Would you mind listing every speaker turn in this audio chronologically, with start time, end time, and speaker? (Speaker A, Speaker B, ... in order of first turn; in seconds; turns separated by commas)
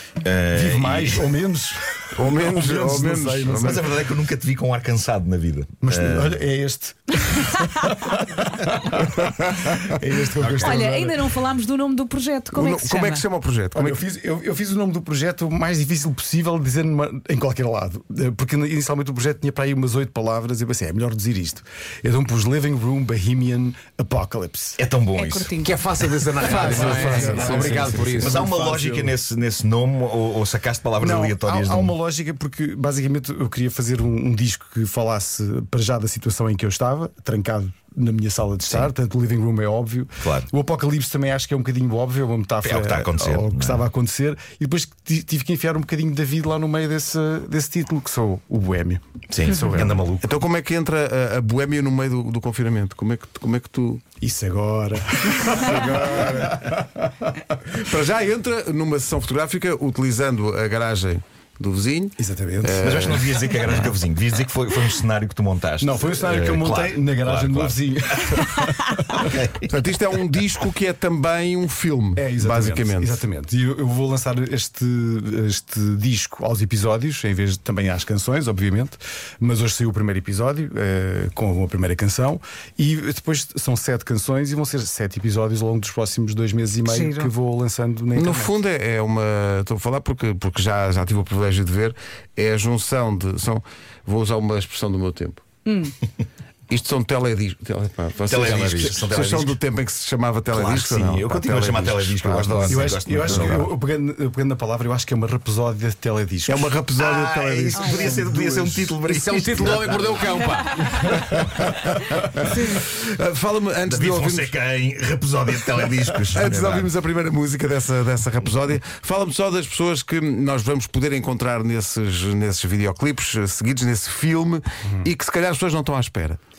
Speaker A: 0.2-1.3, Speaker B: 0.5-4.0, Speaker C: 2.1-3.8, Speaker A: 3.6-6.4, Speaker B: 5.8-11.2, Speaker A: 10.4-10.8, Speaker D: 10.6-13.3, Speaker C: 12.5-14.0, Speaker B: 13.7-24.8, Speaker A: 24.8-25.5, Speaker D: 25.1-25.8, Speaker E: 25.6-28.5, Speaker C: 26.4-28.3, Speaker B: 26.4-29.1, Speaker A: 27.4-31.9, Speaker B: 31.0-50.0, Speaker A: 40.2-40.5, Speaker A: 42.6-43.9, Speaker A: 49.3-50.2, Speaker C: 50.2-54.0, Speaker B: 54.2-56.9, Speaker C: 55.5-56.7, Speaker C: 57.8-63.4, Speaker B: 62.2-62.9, Speaker A: 62.8-68.4, Speaker B: 65.8-69.2, Speaker A: 69.1-69.7, Speaker C: 69.7-73.2, Speaker B: 72.1-88.5, Speaker D: 86.8-87.3, Speaker C: 88.1-95.4, Speaker D: 95.7-95.9, Speaker C: 96.7-103.7, Speaker A: 98.3-99.6, Speaker E: 98.4-98.9, Speaker A: 100.5-103.7, Speaker B: 102.7-106.7, Speaker C: 106.5-109.0, Speaker A: 107.0-110.2, Speaker D: 107.7-108.2, Speaker E: 109.0-111.4, Speaker C: 111.0-114.5, Speaker D: 112.3-112.8, Speaker A: 113.8-116.9, Speaker C: 116.3-126.4